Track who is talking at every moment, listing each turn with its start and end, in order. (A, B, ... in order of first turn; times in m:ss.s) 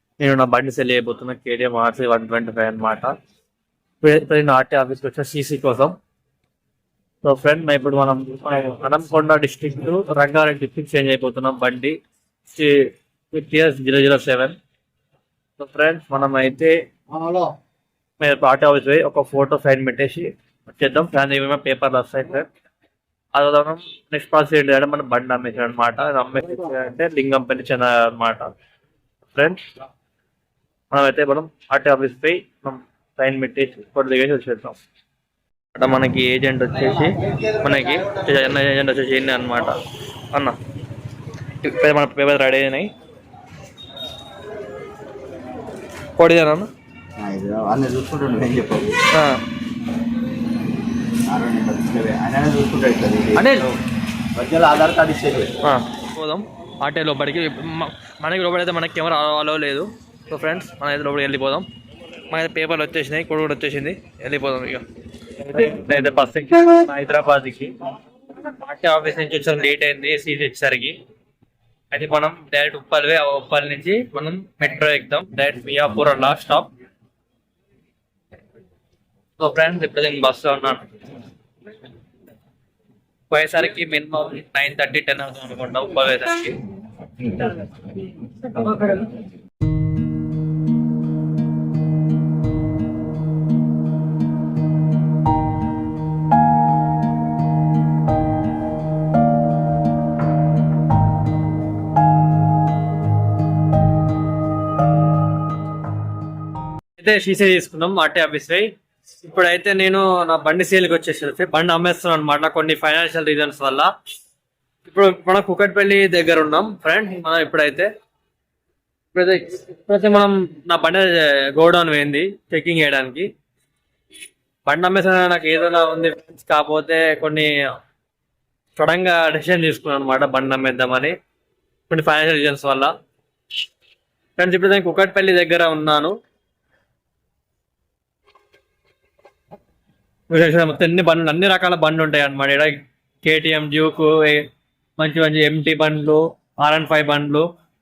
0:00.2-0:03.1 A
0:04.0-0:06.0 A
0:07.2-0:12.0 A
0:12.5-0:14.6 A
0:15.6-0:17.5 A
0:18.2-0:22.5 A
0:23.4-0:28.5 A
0:29.3-0:29.6 A
0:30.9-0:34.8 A
0:35.8-0:39.8 A
0:41.6-0:42.9 A
0:46.2-0:46.7 A
0:47.2-0:49.0 B
0:49.1-0:49.4 A
0:51.2-0:53.7 B
0:53.4-0:53.7 A
0:54.3-0:55.6 B
0:55.6-1:01.7 A
1:02.3-1:04.8 A
1:05.4-1:07.7 A
1:08.4-1:11.0 A
1:11.9-1:16.7 A
1:19.4-1:20.9 A
1:23.3-1:26.6 A
1:27.2-1:27.6 A
1:28.4-1:29.1 A
1:47.0-1:48.7 A
1:49.2-1:53.9 A
1:54.9-1:57.9 A
1:59.1-2:03.3 A
2:04.7-2:07.5 A
2:08.8-2:11.2 A
2:11.9-2:12.9 A
2:14.4-2:16.2 A
2:20.3-2:24.5 A
2:25.0-2:27.5 A